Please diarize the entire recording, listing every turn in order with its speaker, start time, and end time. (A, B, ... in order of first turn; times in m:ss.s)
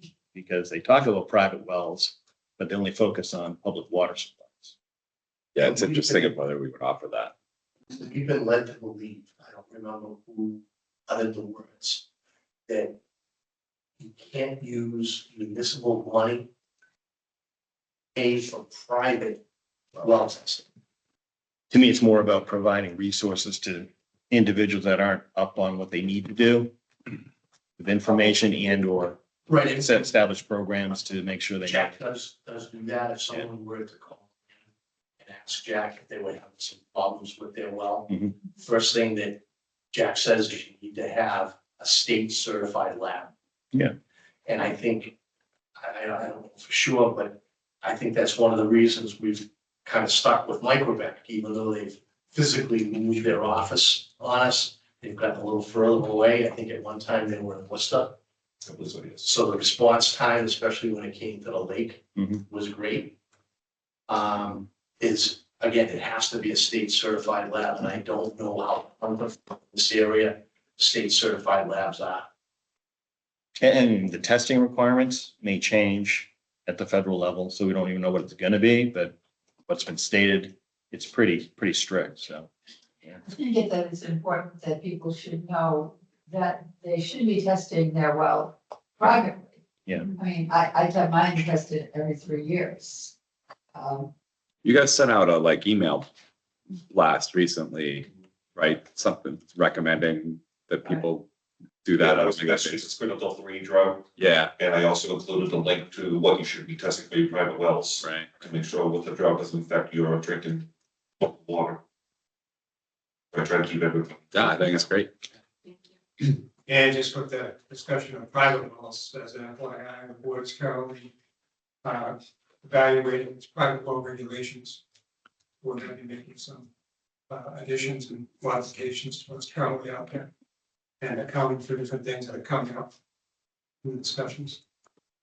0:00.3-0:04.8 A
0:05.5-0:07.3 B
0:05.6-0:06.3 C
0:07.9-0:12.0 C
0:12.7-0:13.0 C
0:14.0-0:16.5 C
0:18.1-0:19.4 C
0:20.0-0:20.6 C
0:21.7-0:26.7 A
0:27.8-0:29.2 A
0:29.4-0:30.1 C
0:29.8-0:31.9 A
0:31.6-0:34.3 C
0:35.2-0:43.3 C
0:44.4-0:45.2 C
0:45.8-0:58.2 C
0:58.6-0:59.3 D
0:59.2-1:03.2 C
1:02.2-1:02.4 A
1:04.1-1:12.3 C
1:13.6-1:19.2 A
1:19.7-1:22.5 A
1:23.2-1:29.5 E
1:30.0-1:33.1 E
1:33.7-1:34.1 E
1:34.6-1:36.1 B
1:36.9-1:41.3 B
1:41.8-1:42.9 B
1:42.0-1:50.7 D
1:44.2-1:44.5 B
1:48.0-1:48.3 B
1:51.2-1:51.8 D
1:53.3-1:54.6 D
1:54.3-1:55.1 B
1:56.7-2:01.1 F
2:01.8-2:04.8 F
2:05.6-2:06.7 F
2:07.3-2:10.3 F
2:11.0-2:12.9 F
2:13.8-2:14.6 F